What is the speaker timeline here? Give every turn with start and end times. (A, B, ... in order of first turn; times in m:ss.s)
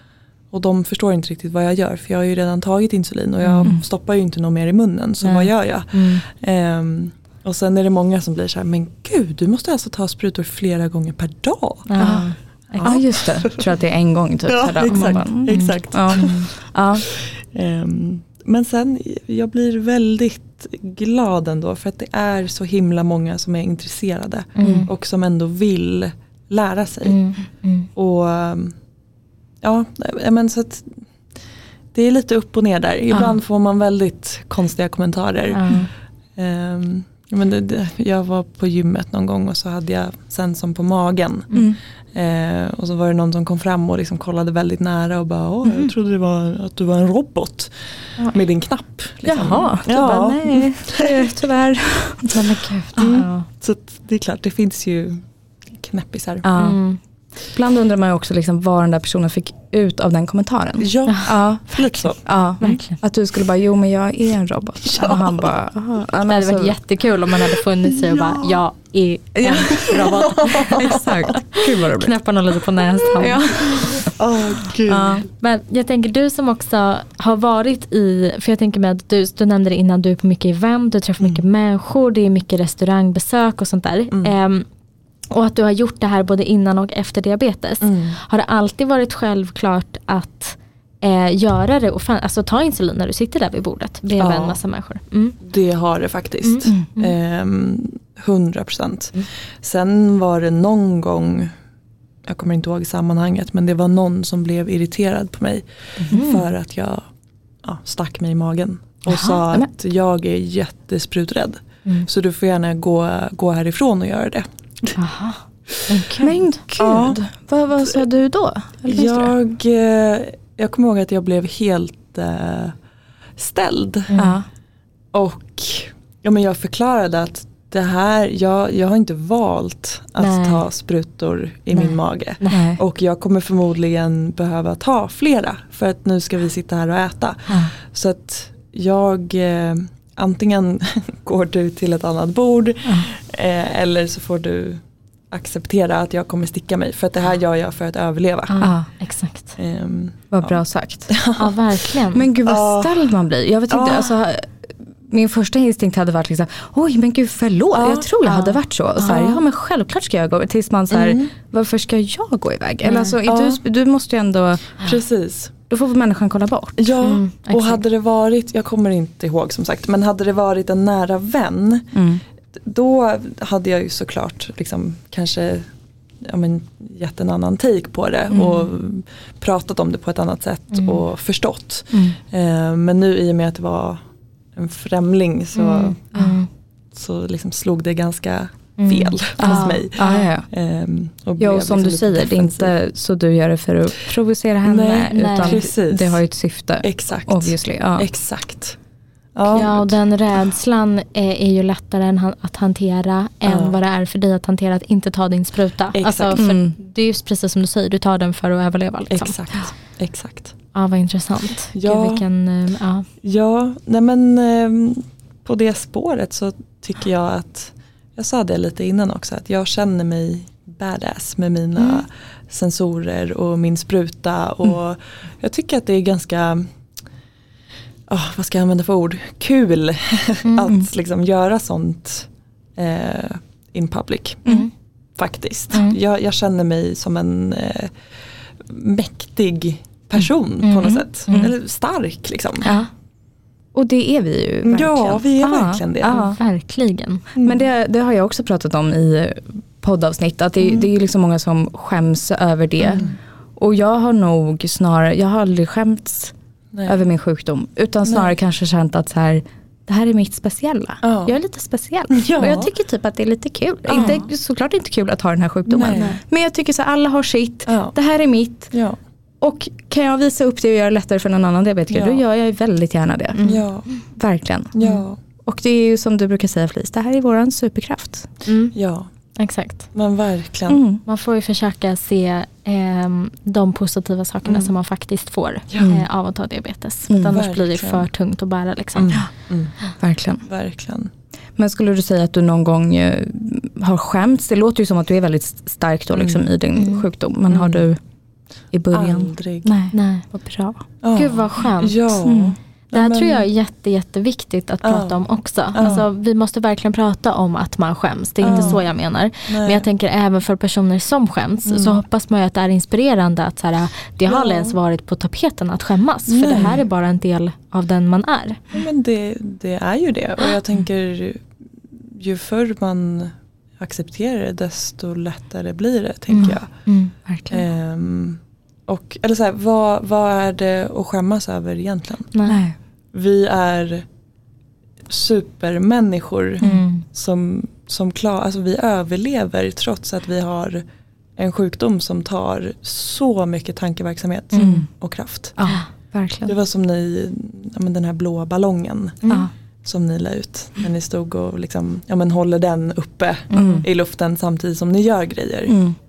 0:00.5-0:11.9 A
0:03.4-0:03.7 B
0:05.2-0:06.2 B
0:11.9-0:13.0 B
0:12.0-0:12.3 C
0:12.8-0:13.7 A
0:12.8-0:17.0 C
0:14.5-0:16.5 A
0:15.0-0:16.3 B
0:17.0-0:27.2 A
0:24.6-0:24.9 B
0:24.6-0:24.9 C
0:27.0-0:27.9 B
0:27.9-0:28.7 A
0:29.6-0:31.0 A
0:31.9-0:35.8 A
0:35.5-0:35.9 B
0:36.3-0:41.5 A
0:42.1-0:47.7 A
0:48.2-0:51.3 A
0:49.2-0:52.4 C
0:52.3-0:53.5 B
0:53.0-0:55.2 A
0:55.7-0:56.4 A
0:56.4-0:56.8 C
0:56.6-0:57.0 B
0:57.5-1:06.7 C
1:00.8-1:02.2 A
1:02.6-1:03.0 B
1:04.8-1:05.5 A
1:06.2-1:13.8 B
1:07.8-1:08.6 A
1:09.4-1:12.1 C
1:09.6-1:11.4 A
1:13.2-1:14.1 C
1:13.8-1:15.2 A
1:14.9-1:15.3 C
1:15.4-1:24.6 B
1:25.3-1:35.4 B
1:27.8-1:28.2 A
1:34.2-1:34.6 A
1:35.4-1:41.5 A
1:36.4-1:37.1 B
1:42.2-1:47.0 A
1:46.1-1:46.4 C
1:46.1-1:46.4 B
1:47.6-1:55.0 A
1:49.1-1:49.7 C
1:55.0-1:56.4 B
1:56.2-1:59.3 C
1:56.8-1:57.2 A
1:58.8-2:02.8 A
2:03.4-2:04.1 A
2:04.1-2:04.4 B
2:04.1-2:04.4 C
2:05.1-2:28.6 A
2:10.2-2:10.6 B
2:11.7-2:12.7 B
2:12.5-2:12.8 C
2:28.5-2:29.5 B
2:28.6-2:28.9 C
2:29.6-2:31.9 A
2:30.3-2:31.1 C
2:31.4-2:32.3 B
2:32.1-2:34.5 C
2:32.4-2:33.1 A
2:33.7-2:34.2 A
2:35.1-2:44.8 C
2:37.7-2:38.2 A
2:38.3-2:39.3 B
2:39.0-2:39.4 A
2:40.9-2:41.3 A
2:42.8-2:43.2 B
2:43.3-2:43.6 A
2:44.8-2:45.5 A
2:45.7-2:46.8 C
2:46.8-2:52.0 A
2:47.0-2:47.8 B
2:51.9-2:52.2 C
2:52.6-2:55.7 A
2:56.2-3:04.0 A
3:00.7-3:01.0 B
3:01.9-3:02.2 C
3:04.5-3:06.0 A
3:05.6-3:06.5 B
3:06.9-3:12.7 A
3:08.8-3:10.3 B
3:09.4-3:10.5 C
3:11.4-3:18.1 C
3:14.6-3:16.2 A
3:15.1-3:15.6 B
3:16.8-3:18.8 A
3:19.3-3:19.9 A
3:19.5-3:29.4 B
3:23.4-3:23.8 A
3:25.9-3:26.4 A
3:26.3-3:26.7 C
3:29.1-3:30.5 A
3:30.7-3:33.0 B
3:31.7-3:32.2 A
3:33.2-3:46.7 A
3:48.1-3:54.4 A
3:50.4-3:50.7 B
3:55.2-3:57.9 A
3:58.6-4:02.7 A
4:00.6-4:01.5 B
4:00.8-4:01.5 C
4:03.7-4:06.4 C
4:04.6-4:06.2 A
4:06.0-4:07.2 B
4:07.3-4:07.7 A
4:07.4-4:16.3 C
4:12.9-4:13.2 A
4:16.8-4:28.7 C
4:18.0-4:18.3 A
4:21.0-4:21.4 A
4:22.1-4:22.7 A
4:23.9-4:24.2 A
4:23.9-4:24.2 B
4:25.7-4:26.2 A
4:25.9-4:26.2 B
4:27.7-4:27.9 A
4:28.7-4:29.0 A
4:29.4-4:33.5 C
4:31.9-4:32.2 A
4:33.3-4:33.6 B
4:33.4-4:33.9 A
4:34.1-4:34.9 C
4:34.7-4:35.2 A
4:35.4-4:38.3 C
4:38.4-4:38.7 B
4:38.7-4:39.1 A
4:39.4-4:39.9 B
4:39.9-4:40.8 A
4:40.7-4:41.0 C
4:41.0-4:49.2 B
4:44.4-4:44.7 A
4:45.7-4:46.0 A
4:47.1-4:47.4 C
4:47.3-4:48.1 A
4:48.9-4:49.7 A
4:50.0-4:50.4 C
4:50.4-4:51.1 A
4:51.6-4:58.0 C
4:56.1-4:56.5 A
4:56.8-4:57.0 B
4:57.5-4:57.8 A
4:58.7-5:00.8 C
4:58.9-4:59.7 A
4:59.9-5:00.2 B
5:01.0-5:03.5 A
5:01.1-5:02.1 B
5:02.2-5:02.5 C
5:02.9-5:18.6 B
5:04.8-5:05.2 A
5:05.7-5:06.0 A
5:08.4-5:08.9 A
5:08.4-5:08.8 C
5:09.5-5:09.8 A
5:11.6-5:12.0 A
5:14.3-5:14.8 A
5:16.3-5:16.8 A
5:18.7-5:21.4 A
5:22.0-5:26.7 A
5:26.3-5:27.1 B
5:27.3-5:27.6 C
5:27.5-5:32.3 A
5:32.3-5:32.6 B
5:32.4-5:32.7 C
5:33.1-5:34.0 A
5:35.1-5:40.8 A
5:36.6-5:36.9 C
5:36.6-5:37.0 B
5:41.4-5:45.6 A
5:44.6-5:44.8 B
5:44.6-5:44.9 C
5:45.6-5:46.5 C
5:46.4-5:49.3 A
5:49.8-5:55.8 A
5:53.5-5:53.8 B
5:53.5-5:53.8 C
5:55.7-5:55.9 C